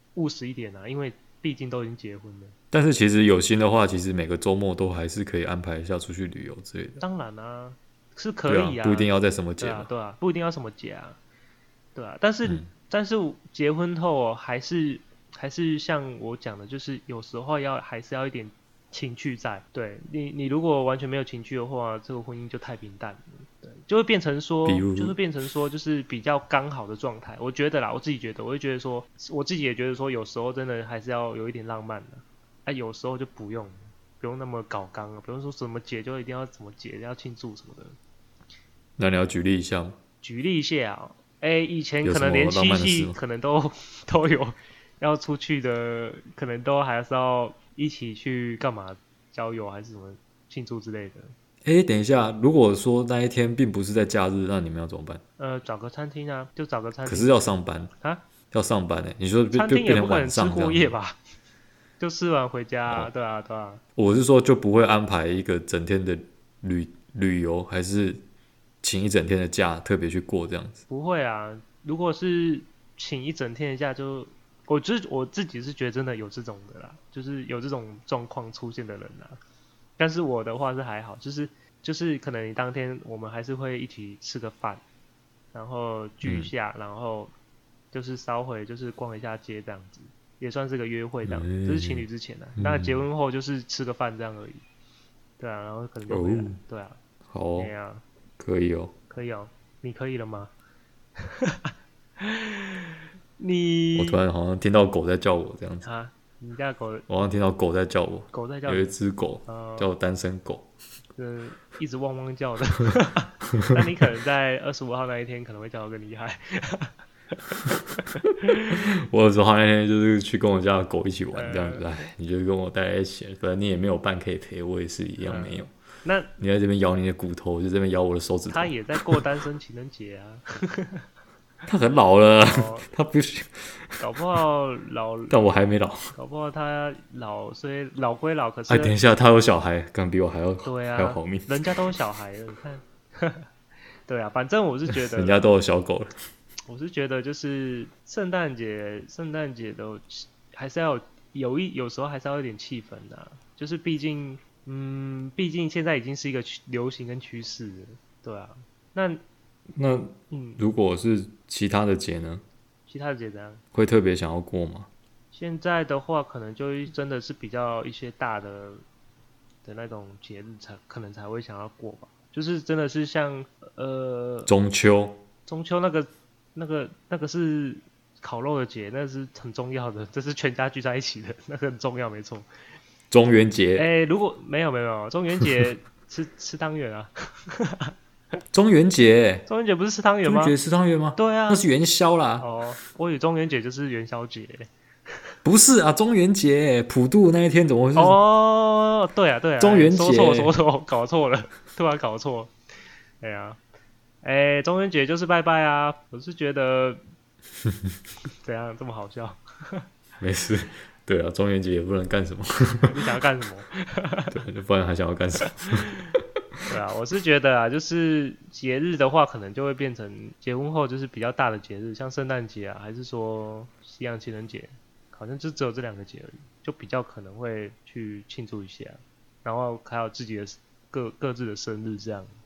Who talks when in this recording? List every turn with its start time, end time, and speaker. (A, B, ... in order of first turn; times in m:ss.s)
0:00.1-0:02.6 A
0:02.7-0:07.0 B
0:07.0-0:11.2 A
0:08.5-0:09.9 B
0:11.9-0:37.9 A
0:12.4-0:12.7 B
0:24.6-0:25.2 B
0:39.0-0:40.0 B
0:40.2-0:51.3 A
0:42.0-0:43.2 B
0:51.6-0:55.2 B
0:55.4-0:58.2 A
0:57.0-0:57.9 B
0:58.5-1:00.9 B
0:59.5-1:01.2 A
1:02.0-1:03.8 A
1:04.0-1:08.2 B
1:08.8-1:10.8 B
1:10.9-1:19.4 A
1:20.0-1:24.8 A
1:25.5-1:27.3 A
1:26.2-1:26.5 B
1:27.9-1:34.6 A
1:31.2-1:32.0 B
1:32.6-1:33.0 B
1:35.4-1:37.0 A
1:36.1-1:36.6 B
1:37.3-1:37.7 B
1:37.6-1:38.0 A
1:38.4-1:38.9 B
1:39.1-1:40.5 A
1:41.2-1:44.2 A
1:43.9-1:45.8 B
1:45.8-1:47.0 A
1:47.1-1:50.7 B
1:48.3-1:48.9 A
1:49.4-1:49.9 A
1:51.2-1:58.8 A
1:59.0-2:05.7 B
2:01.3-2:01.8 A
2:05.2-2:06.4 A
2:06.4-2:09.2 B
2:08.5-2:11.0 A
2:11.6-2:14.0 B
2:12.4-2:12.9 A
2:14.0-2:15.5 A
2:15.3-2:16.1 B
2:16.1-2:18.9 A
2:18.7-2:21.5 B
2:20.6-2:23.5 A
2:24.1-2:25.4 A
2:24.9-2:26.1 B
2:26.7-2:39.2 A
2:39.8-2:42.4 B
2:40.3-2:40.6 A
2:42.9-2:43.6 A
2:43.7-2:44.9 B
2:45.3-2:48.8 A
2:49.6-2:54.5 A
2:54.5-2:55.2 B
2:55.5-3:02.4 A
3:03.1-3:03.8 B
3:03.8-3:07.9 A
3:08.5-3:09.4 B
3:09.5-3:10.5 A
3:10.2-3:12.5 B
3:11.2-3:11.6 A
3:12.4-3:14.7 A
3:15.4-3:18.2 B
3:17.9-3:22.5 A
3:19.6-3:20.5 B
3:23.2-3:23.6 A
3:24.2-3:27.0 A
3:28.4-3:29.8 A
3:30.2-3:32.9 B
3:32.9-3:34.4 A
3:34.3-3:35.9 B
3:36.7-3:52.3 A